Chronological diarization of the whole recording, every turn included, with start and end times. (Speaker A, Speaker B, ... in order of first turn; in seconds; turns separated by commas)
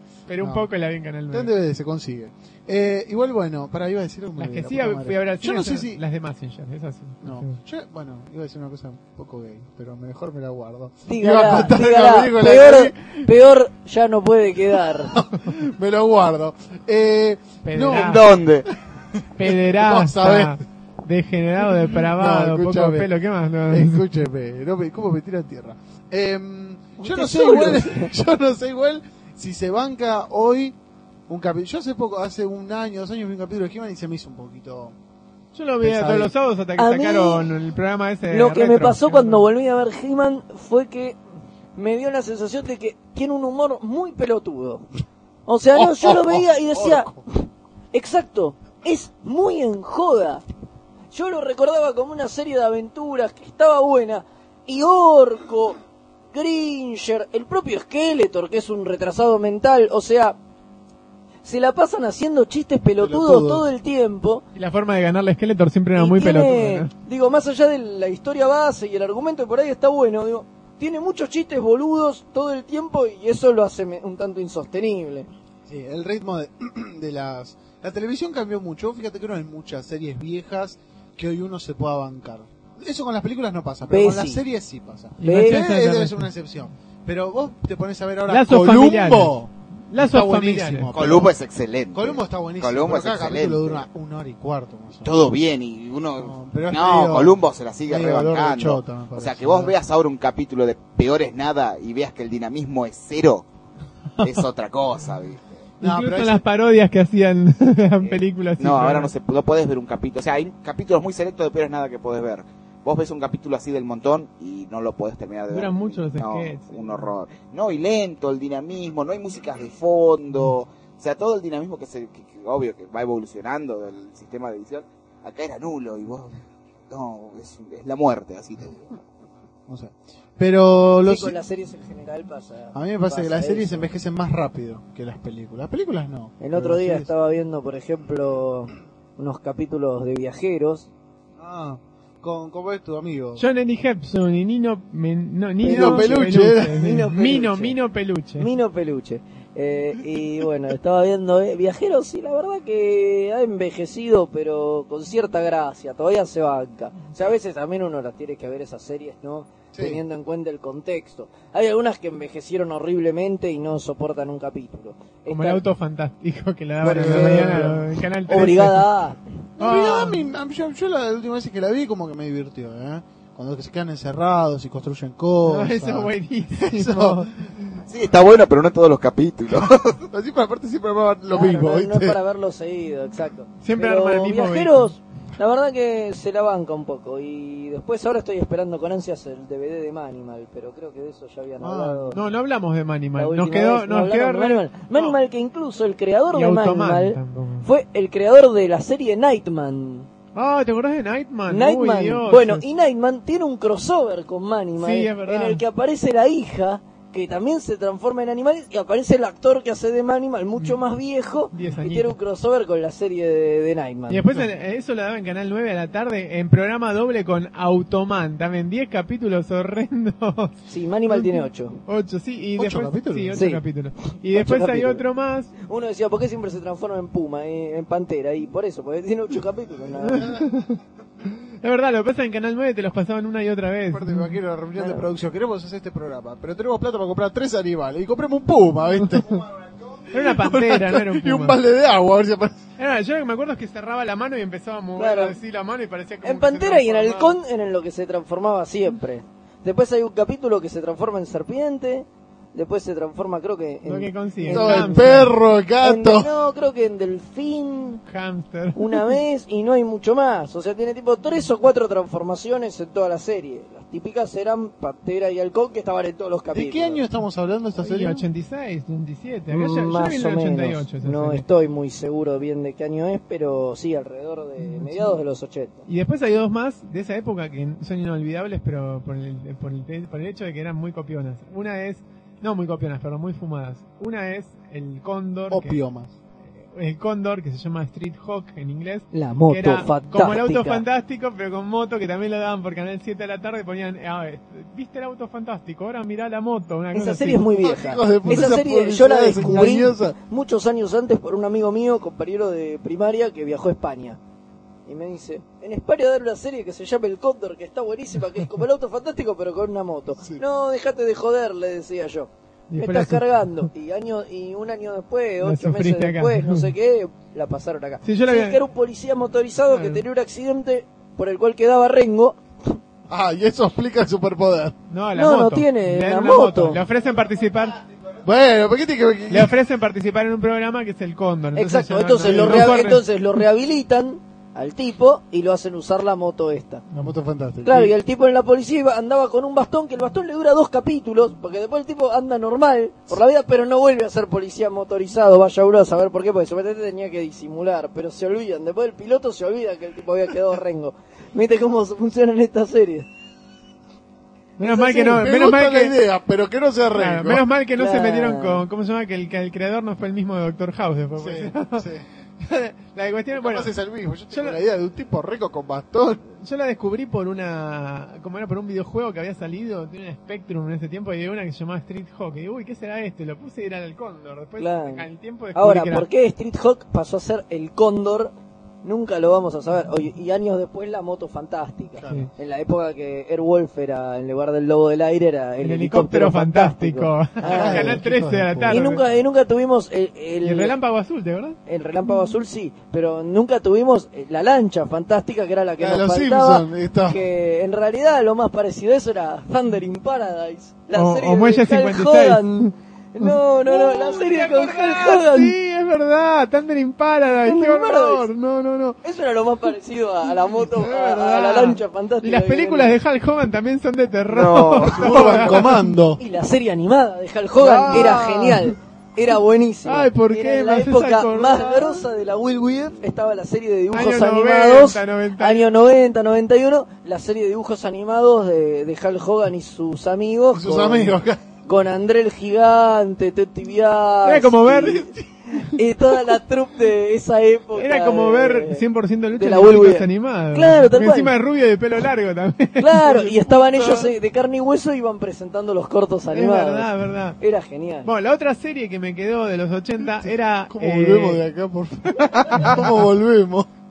Speaker A: 0.3-1.5, Speaker B: 0.4-0.7, Speaker B: 1.3-6.0, Speaker A: 4.4-7.6, Speaker B: 7.2-13.3, Speaker C: 11.1-15.2, Speaker B: 15.1-18.3, Speaker A: 17.6-18.3, Speaker D: 17.9-18.7, Speaker B: 19.1-20.6, Speaker A: 19.4-24.0, Speaker B: 21.6-23.1, Speaker B: 23.7-30.8, Speaker C: 27.0-28.1, Speaker B: 31.3-35.0, Speaker A: 35.5-39.5, Speaker B: 35.8-36.3, Speaker C: 36.8-37.5, Speaker C: 38.3-41.2, Speaker C: 41.8-44.9, Speaker C: 45.5-47.1, Speaker B: 45.7-47.2, Speaker C: 47.9-50.4, Speaker C: 51.1-55.8, Speaker C: 56.3-60.4, Speaker C: 61.4-64.4, Speaker B: 63.0-63.6, Speaker A: 64.5-66.9, Speaker C: 65.9-75.3, Speaker B: 75.7-91.3, Speaker C: 83.8-84.4, Speaker A: 85.2-86.3, Speaker C: 85.2-85.6, Speaker A: 88.3-89.4, Speaker A: 89.9-90.9, Speaker D: 90.9-93.8, Speaker B: 91.9-95.3, Speaker D: 95.0-103.5, Speaker B: 96.2-99.8, Speaker D: 104.2-105.6, Speaker B: 105.8-106.4, Speaker A: 105.8-109.1, Speaker D: 108.0-126.4, Speaker A: 115.5-117.1, Speaker D: 126.9-129.0, Speaker B: 129.7-131.4, Speaker C: 131.0-133.9, Speaker B: 132.7-137.1, Speaker C: 136.4-140.9, Speaker B: 141.4-143.4, Speaker A: 143.4-148.5, Speaker C: 145.6-147.8, Speaker B: 145.6-147.1, Speaker C: 148.4-165.6, Speaker B: 159.7-160.0, Speaker A: 165.3-168.9, Speaker C: 166.8-169.2, Speaker B: 166.8-167.8, Speaker D: 168.3-168.6, Speaker B: 169.6-177.3, Speaker A: 169.6-170.2, Speaker A: 175.4-177.8, Speaker D: 177.9-180.0, Speaker B: 180.1-182.2, Speaker C: 181.3-192.2, Speaker A: 183.6-184.9, Speaker B: 191.6-192.2, Speaker A: 192.1-195.2, Speaker C: 193.2-200.1, Speaker A: 196.3-197.7, Speaker A: 200.3-202.7, Speaker C: 201.5-214.4, Speaker A: 204.8-205.6, Speaker A: 211.5-212.1, Speaker A: 214.1-220.6, Speaker C: 220.7-221.8, Speaker A: 221.1-225.5, Speaker B: 222.6-223.4, Speaker C: 223.3-223.6, Speaker C: 224.3-225.0, Speaker C: 225.7-230.4, Speaker A: 230.0-230.8, Speaker A: 231.6-234.4, Speaker B: 233.9-239.5, Speaker C: 234.8-235.0, Speaker B: 240.1-242.6, Speaker A: 240.1-241.6, Speaker A: 242.8-247.4, Speaker C: 244.9-245.4, Speaker C: 246.2-255.2, Speaker A: 253.8-255.3, Speaker B: 254.5-256.3, Speaker C: 255.8-258.0, Speaker A: 258.1-259.2, Speaker C: 258.7-267.0, Speaker B: 266.5-268.2, Speaker A: 267.8-271.4, Speaker C: 269.5-275.8, Speaker A: 274.6-275.2, Speaker A: 275.9-285.8, Speaker B: 285.5-286.1, Speaker A: 286.7-297.4, Speaker C: 289.1-290.8, Speaker C: 296.9-304.2, Speaker B: 297.6-300.1, Speaker C: 304.9-322.4, Speaker A: 312.7-313.7, Speaker A: 315.4-316.7, Speaker A: 318.0-318.6, Speaker A: 319.7-320.0, Speaker B: 323.1-324.8, Speaker A: 324.9-327.8, Speaker C: 325.1-326.8, Speaker B: 328.2-329.5, Speaker A: 329.3-333.0, Speaker C: 331.5-336.8, Speaker B: 332.2-332.8, Speaker B: 336.9-337.9, Speaker C: 337.6-353.1, Speaker A: 354.6-355.9, Speaker B: 354.6-357.4, Speaker A: 356.9-361.9, Speaker C: 357.8-358.6, Speaker B: 361.2-362.1, Speaker A: 362.4-363.7, Speaker B: 363.3-366.2, Speaker A: 364.3-364.6, Speaker A: 366.4-376.1, Speaker C: 374.6-388.0, Speaker B: 382.0-382.3, Speaker A: 385.6-389.0, Speaker B: 387.4-388.9, Speaker C: 388.7-390.7, Speaker A: 390.4-391.6, Speaker C: 391.7-405.6, Speaker B: 395.8-397.2, Speaker A: 400.9-409.0, Speaker C: 407.4-408.3, Speaker C: 409.0-413.0, Speaker A: 410.7-415.8, Speaker D: 414.3-415.5, Speaker B: 414.8-416.2, Speaker C: 416.2-438.8, Speaker A: 417.6-418.7, Speaker B: 417.6-418.6, Speaker A: 419.8-422.0, Speaker A: 423.9-425.7, Speaker B: 430.5-431.4, Speaker A: 434.2-435.2, Speaker A: 437.8-444.1, Speaker C: 439.3-441.3, Speaker C: 442.8-448.1, Speaker A: 446.3-447.4, Speaker A: 448.0-451.4, Speaker B: 450.1-453.7, Speaker A: 452.5-453.0